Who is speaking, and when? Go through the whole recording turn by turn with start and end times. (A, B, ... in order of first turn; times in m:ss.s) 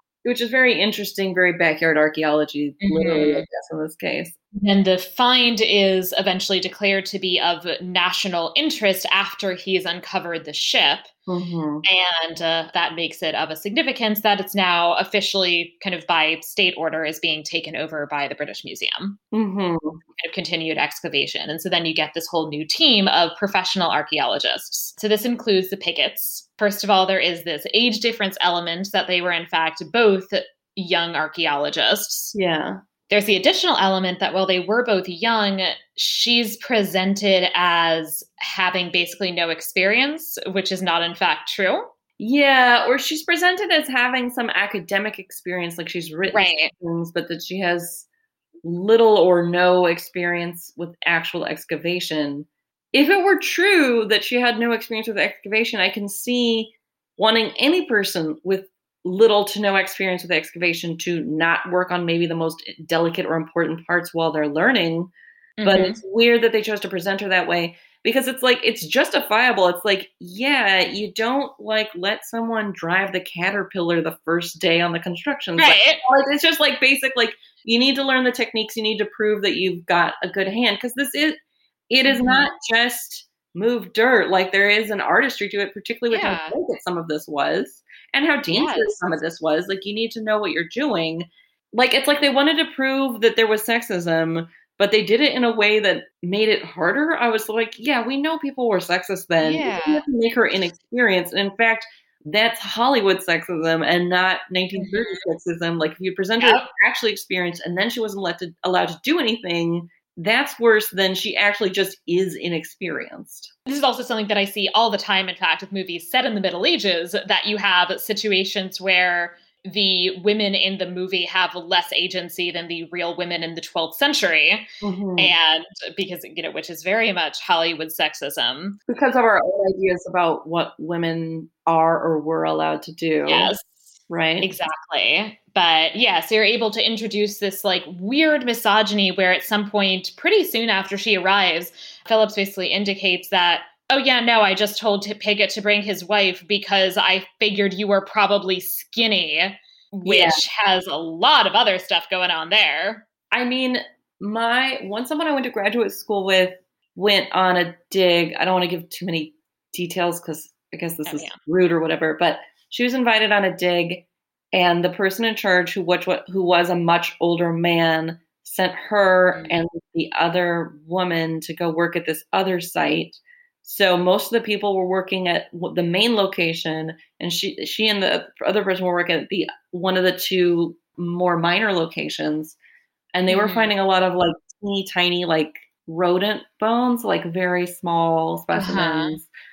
0:00.2-0:04.4 A
0:02.8-0:03.4 B
0:04.5-0:11.1 B
0:11.3-0:11.8 A
0:11.8-0:19.2 B
0:19.3-0:20.0 A
0:20.2-0:32.3 B
0:32.3-0:32.8 A
0:33.1-0:41.9 B
0:42.2-0:48.1 A
0:46.3-0:46.7 B
0:48.6-1:05.1 A
1:05.6-1:06.0 B
1:05.6-1:21.4 A
1:15.6-1:16.0 B
1:21.9-1:53.5 A
1:22.0-1:22.5 B
1:26.1-1:26.6 B
1:28.5-1:29.0 B
1:39.4-1:40.0 B
1:44.7-1:45.2 B
1:46.4-1:46.7 B
1:53.6-2:04.6 B
2:04.8-2:05.3 A
2:05.2-2:08.8 B
2:08.9-2:13.5 A
2:13.2-2:33.1 B
2:14.1-2:14.5 A
2:30.0-2:30.4 A
2:33.3-3:02.6 A
2:41.0-2:41.4 B
3:03.1-3:09.3 A
3:03.3-3:03.7 B
3:08.5-3:09.2 B